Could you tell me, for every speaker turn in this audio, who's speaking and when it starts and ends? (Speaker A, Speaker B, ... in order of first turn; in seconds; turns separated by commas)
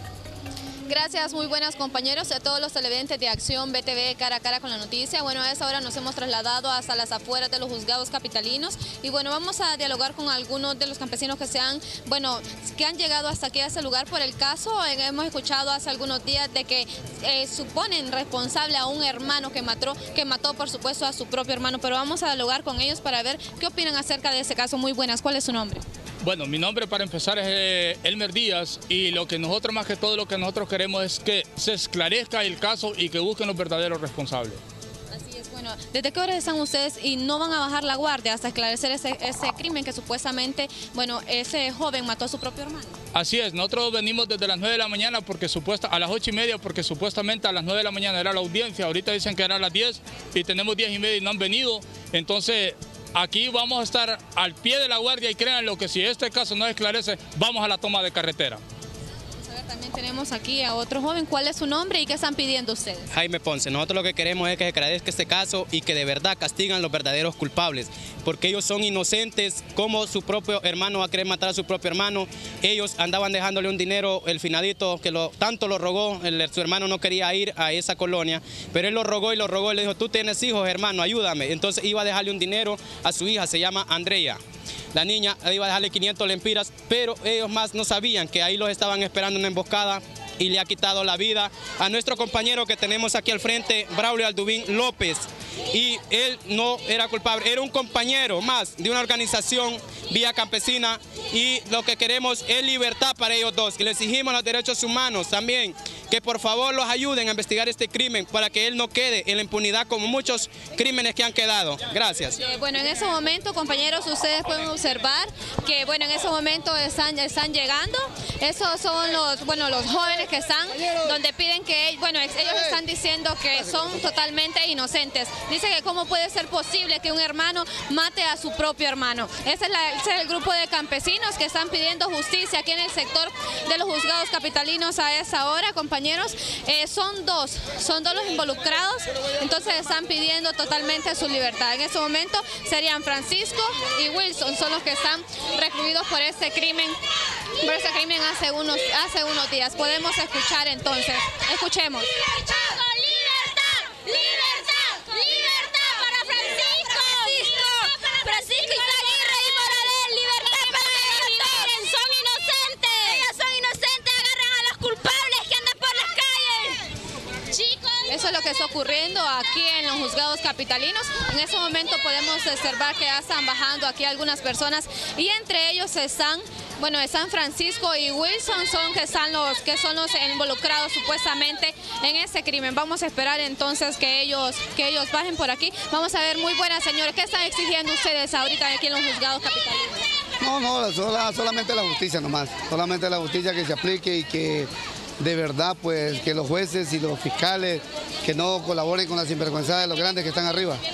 Speaker A: 0.9-25.8, Speaker B: 26.2-34.6, Speaker A: 35.1-43.0, Speaker B: 43.1-58.6, Speaker A: 59.4-63.1, Speaker C: 63.1-84.4, Speaker C: 84.9-112.4, Speaker A: 112.4-147.0, Speaker A: 147.6-166.8, Speaker A: 167.5-190.1, Speaker D: 190.4-200.8